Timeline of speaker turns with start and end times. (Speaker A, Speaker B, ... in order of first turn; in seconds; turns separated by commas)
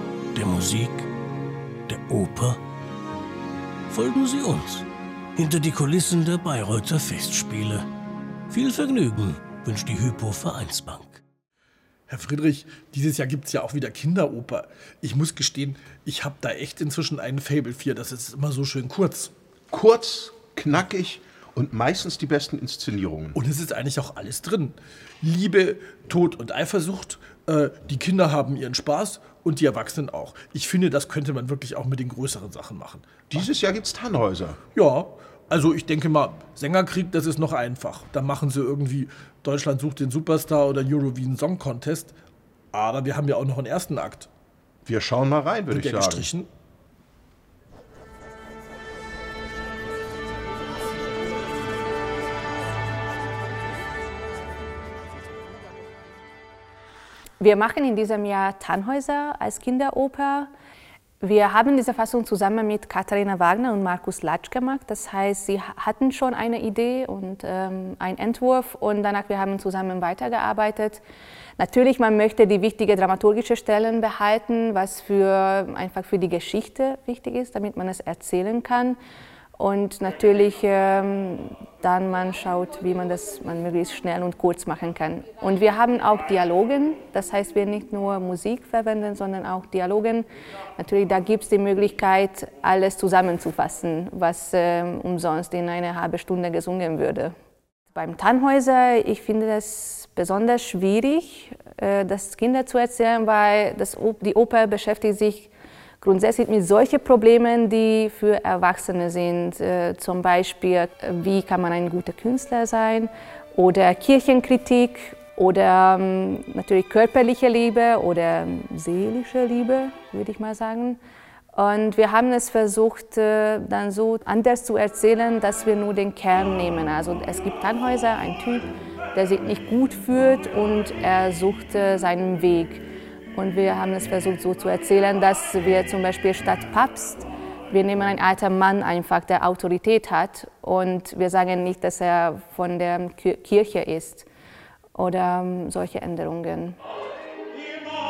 Speaker A: 0.3-1.1, Speaker A: 1.9-2.6, Speaker A: 3.9-7.9, Speaker A: 8.5-11.2, Speaker B: 12.1-19.3, Speaker C: 19.7-23.4, Speaker B: 23.4-33.4, Speaker C: 33.3-34.6, Speaker B: 34.8-42.1, Speaker B: 42.7-44.3, Speaker C: 44.9-46.3, Speaker B: 45.7-46.5, Speaker D: 57.4-60.5, Speaker D: 61.2-71.0, Speaker D: 71.6-79.0, Speaker D: 79.6-97.3, Speaker D: 97.9-121.0, Speaker D: 121.5-132.8, Speaker D: 133.3-144.3, Speaker D: 144.9-146.8